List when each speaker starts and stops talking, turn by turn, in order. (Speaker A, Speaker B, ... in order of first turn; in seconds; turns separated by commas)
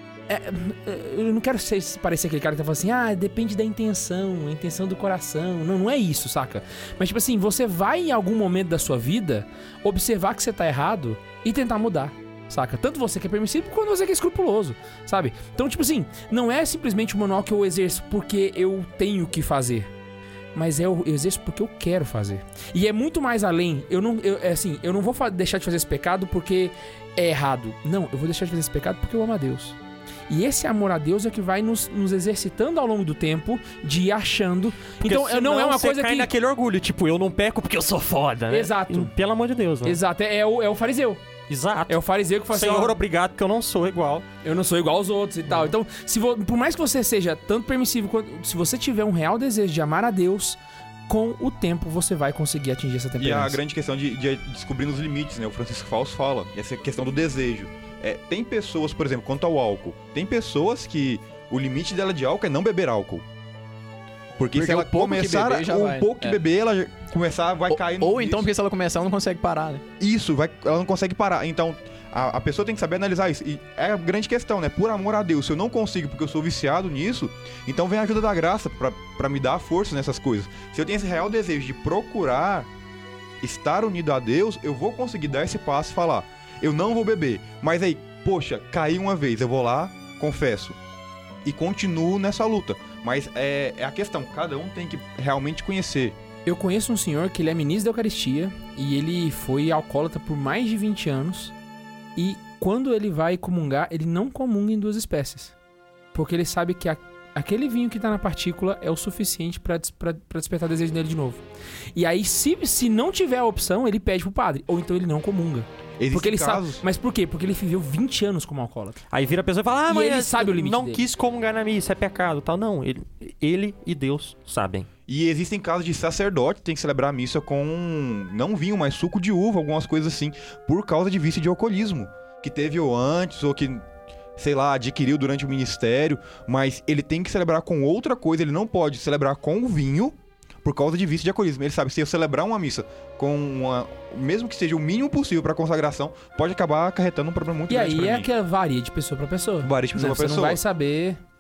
Speaker A: 0.3-19.9, Speaker A: 20.5-29.8, Speaker A: 30.3-36.3, Speaker B: 35.0-40.0, Speaker A: 38.5-39.1, Speaker A: 39.8-41.2, Speaker B: 41.5-44.3, Speaker A: 41.9-43.0, Speaker A: 44.4-53.6, Speaker B: 45.5-45.7, Speaker C: 53.2-63.2, Speaker C: 64.4-68.5, Speaker D: 64.5-66.4, Speaker D: 67.7-69.8, Speaker C: 70.0-82.7, Speaker C: 83.4-90.8, Speaker C: 91.5-96.2, Speaker A: 96.5-101.5, Speaker A: 102.2-105.5, Speaker A: 106.1-111.4, Speaker A: 112.0-119.0, Speaker C: 116.0-116.8, Speaker B: 119.1-124.9, Speaker A: 119.9-121.0, Speaker C: 125.1-133.8, Speaker C: 134.4-148.3, Speaker A: 147.7-151.2, Speaker C: 149.6-150.6